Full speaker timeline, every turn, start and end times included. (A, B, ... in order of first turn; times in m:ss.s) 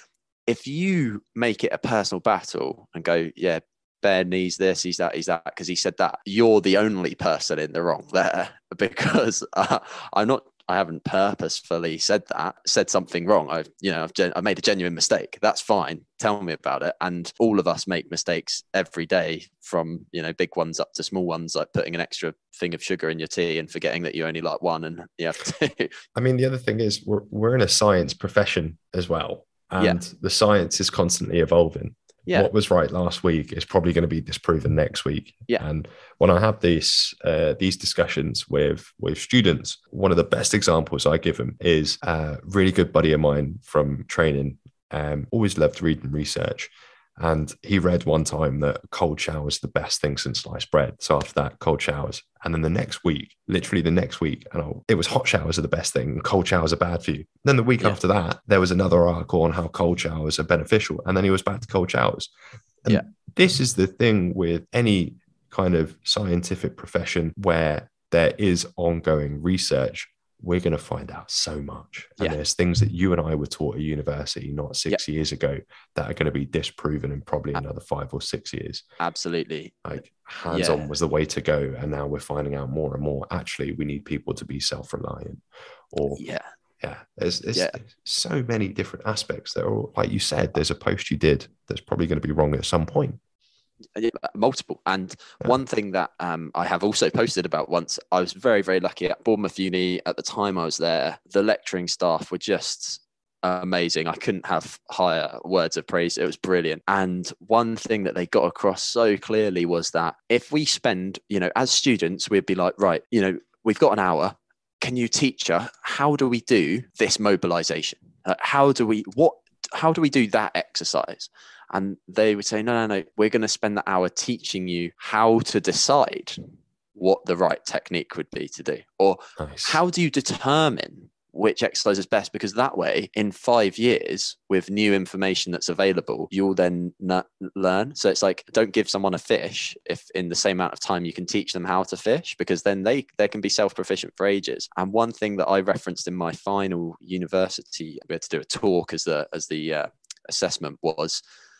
0:00.5-0:26.0 A
0:26.1-1:02.3 B
1:02.8-1:18.8 B
1:19.0-1:19.8 A
1:19.8-1:26.2 B
1:20.5-1:20.9 A
1:26.1-1:26.5 A
1:26.8-1:33.2 B
1:33.9-2:06.4 A
2:06.9-2:31.2 A
2:09.4-2:09.8 B